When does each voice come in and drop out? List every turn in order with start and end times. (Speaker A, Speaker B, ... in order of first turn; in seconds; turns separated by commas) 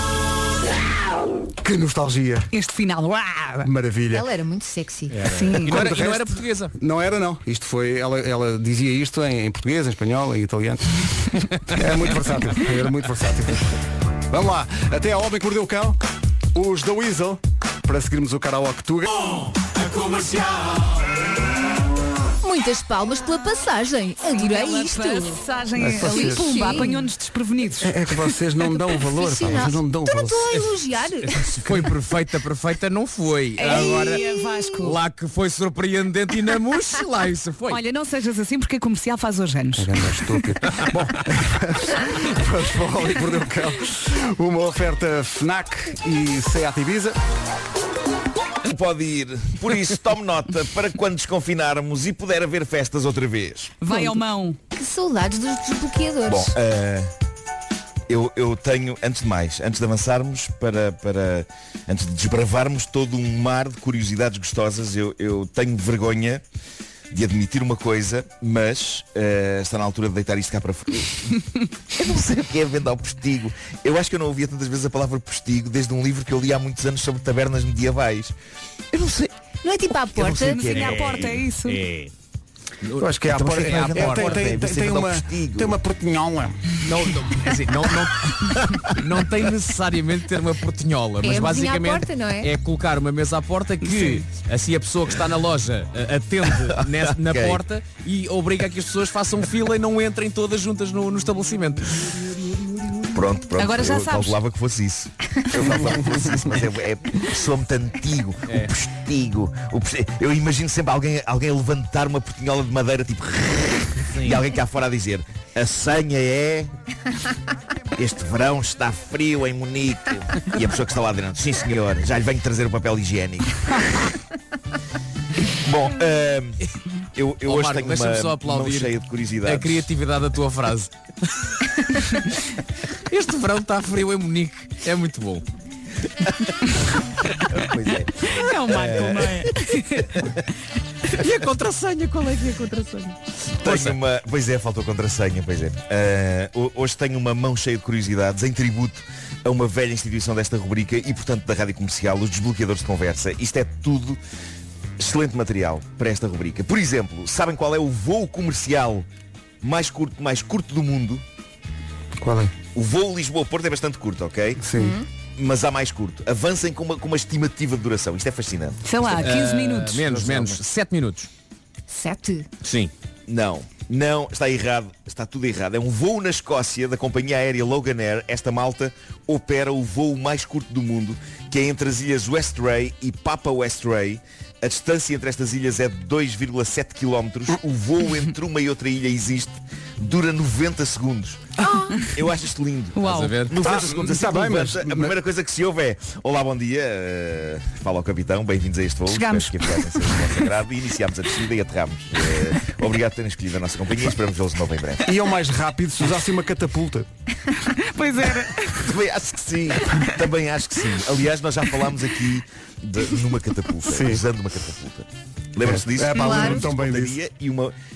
Speaker A: 1.6-2.5, Speaker B: 2.5-3.7, Speaker A: 3.6-4.2, Speaker C: 4.1-5.2, Speaker D: 5.1-6.7, Speaker B: 5.2-5.8, Speaker A: 5.7-11.0, Speaker A: 11.7-13.6, Speaker A: 14.3-16.0, Speaker A: 16.5-19.3, Speaker C: 22.4-27.1, Speaker B: 24.3-27.9, Speaker A: 25.8-26.8, Speaker A: 27.8-30.5, Speaker C: 29.0-31.7, Speaker D: 31.6-34.2, Speaker B: 33.6-35.0, Speaker C: 33.7-34.1, Speaker D: 34.8-37.8, Speaker B: 37.7-40.0, Speaker A: 39.8-47.2, Speaker E: 48.6-53.7, Speaker B: 53.8-54.6, Speaker C: 53.9-54.1, Speaker C: 54.7-56.5, Speaker E: 56.3-57.1, Speaker E: 58.1-66.4, Speaker E: 67.1-71.3, Speaker E: 71.9-78.3, Speaker E: 78.9-79.3, Speaker C: 79.6-80.8, Speaker B: 80.3-81.8, Speaker E: 80.4-81.3, Speaker D: 80.7-82.1, Speaker D: 82.8-84.6, Speaker A: 83.0-86.7, Speaker E: 83.3-85.8, Speaker D: 86.8-102.1, Speaker C: 91.2-92.5, Speaker E: 96.6-97.6, Speaker E: 103.1-116.7, Speaker B: 103.5-104.4, Speaker D: 108.5-108.7, Speaker D: 114.1-114.4, Speaker E: 118.0-123.7, Speaker E: 125.6-126.6, Speaker E: 127.2-129.9, Speaker D: 127.5-130.9, Speaker D: 133.1-135.4, Speaker E: 137.5-139.5, Speaker B: 138.3-140.1, Speaker D: 141.1-143.9, Speaker E: 143.6-154.2, Speaker E: 155.0-159.1, Speaker E: 159.6-161.2, Speaker A: 162.2-162.5, Speaker E: 162.7-164.6, Speaker A: 164.6-164.9, Speaker C: 164.7-165.1, Speaker E: 165.3-169.1, Speaker B: 168.8-170.4, Speaker D: 169.0-171.3, Speaker C: 171.9-172.5, Speaker D: 172.6-172.9, Speaker E: 173.3-191.5, Speaker E: 192.1-205.0, Speaker B: 192.9-193.5, Speaker D: 193.0-193.6, Speaker A: 193.6-195.1, Speaker B: 199.1-200.5, Speaker A: 205.0-207.1, Speaker B: 207.7-208.9, Speaker E: 208.8-217.7, Speaker A: 213.9-214.2, Speaker A: 215.6-217.2, Speaker C: 216.1-216.6